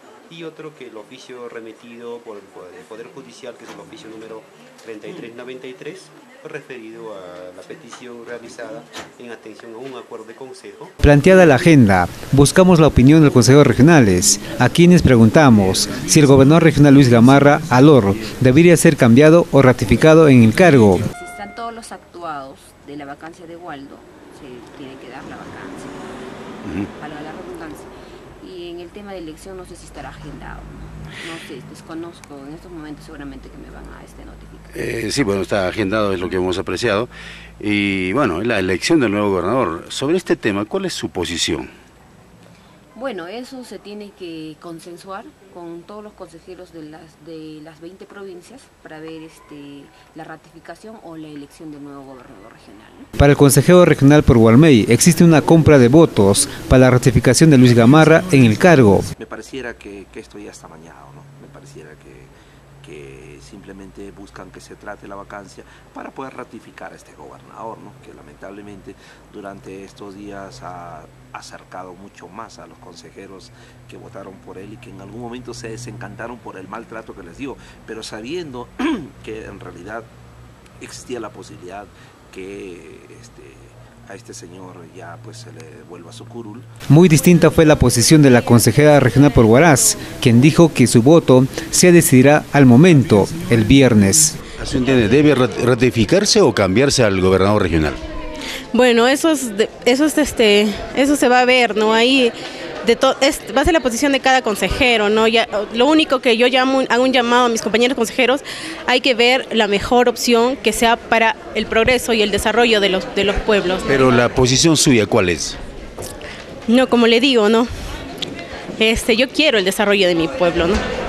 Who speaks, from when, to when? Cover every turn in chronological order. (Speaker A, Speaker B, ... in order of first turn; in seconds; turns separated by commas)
Speaker A: 0.3-10.9, Speaker B: 11.0-21.0, Speaker C: 21.1-26.2, Speaker C: 27.0-27.9, Speaker C: 28.4-34.7, Speaker D: 34.7-41.7, Speaker C: 42.9-53.1, Speaker B: 53.2-59.0, Speaker E: 59.2-80.1, Speaker E: 80.8-86.7, Speaker B: 86.9-94.4, Speaker D: 94.6-98.0, Speaker F: 98.7-114.2, Speaker D: 113.9-115.6, Speaker F: 116.7-117.7, Speaker F: 118.8-120.8